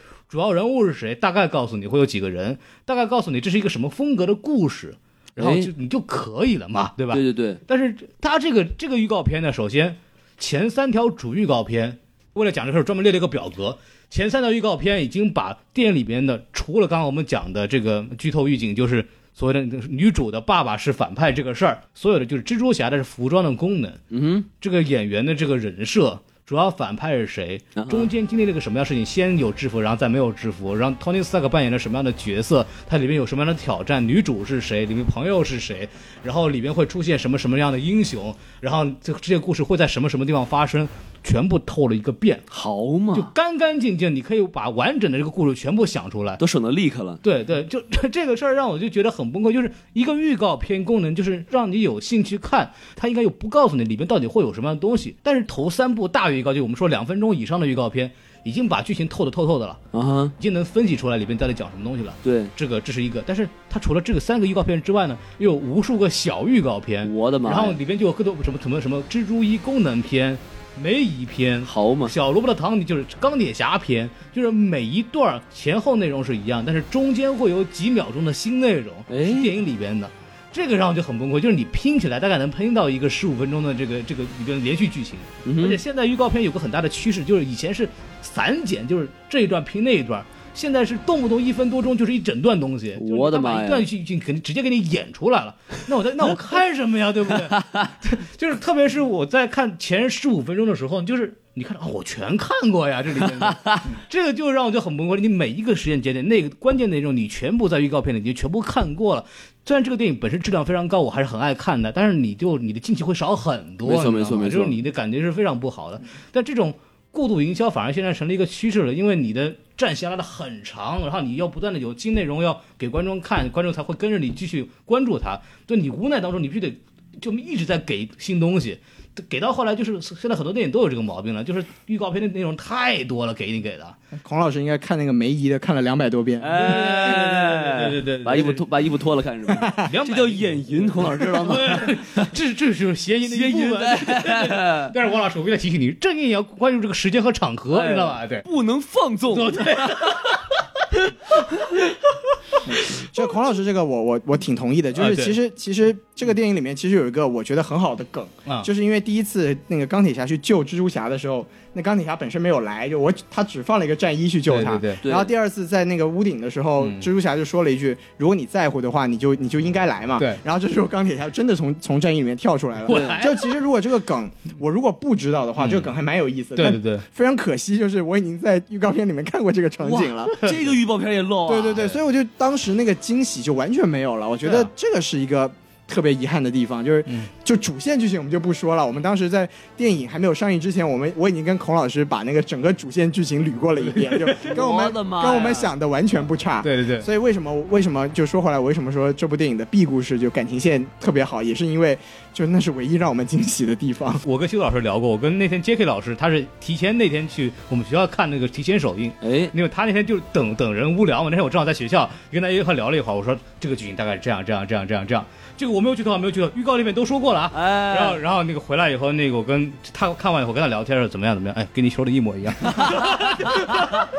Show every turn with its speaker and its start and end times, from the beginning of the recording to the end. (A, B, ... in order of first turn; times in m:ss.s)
0:00.3-0:24.0 A
0:05.4-0:05.7 B
0:07.1-0:07.6 B
0:24.1-0:24.5 B
0:24.6-0:42.5 A
0:27.8-0:28.1 B
0:42.5-0:43.3 B
0:43.1-0:46.4 A
0:46.4-0:47.2 B
0:47.2-0:59.8 A
0:59.9-1:00.3 B
1:00.4-2:14.0 A
1:02.2-1:02.5 B
1:07.0-1:07.8 B
1:11.6-1:12.1 B
1:19.1-1:19.5 B
1:25.4-1:25.8 B
1:33.0-1:33.9 B
1:37.5-1:37.9 B
1:43.4-1:43.8 B
1:53.8-1:54.8 B
2:14.2-2:16.6 C
2:16.4-2:22.3 B
2:16.6-2:18.6 A
2:19.6-2:19.9 C
2:19.7-2:28.5 A
2:23.3-2:24.9 B
2:27.7-2:30.4 B
2:29.3-2:30.4 A
2:32.7-3:00.5 C
2:35.0-2:35.4 A
2:44.5-2:45.0 A
2:45.0-2:45.3 B
2:46.8-2:47.1 A
2:52.8-2:53.6 A
2:52.9-2:53.2 B
2:55.6-2:55.9 A
2:56.6-2:57.0 A
2:59.8-3:02.0 B
3:01.5-3:24.2 C
3:04.4-3:04.7 A
3:13.9-3:14.5 A
3:14.4-3:15.7 B
3:16.6-3:17.1 A
3:24.2-3:44.0 A
3:29.2-3:29.5 B
3:37.5-3:38.2 B
3:42.7-3:43.9 B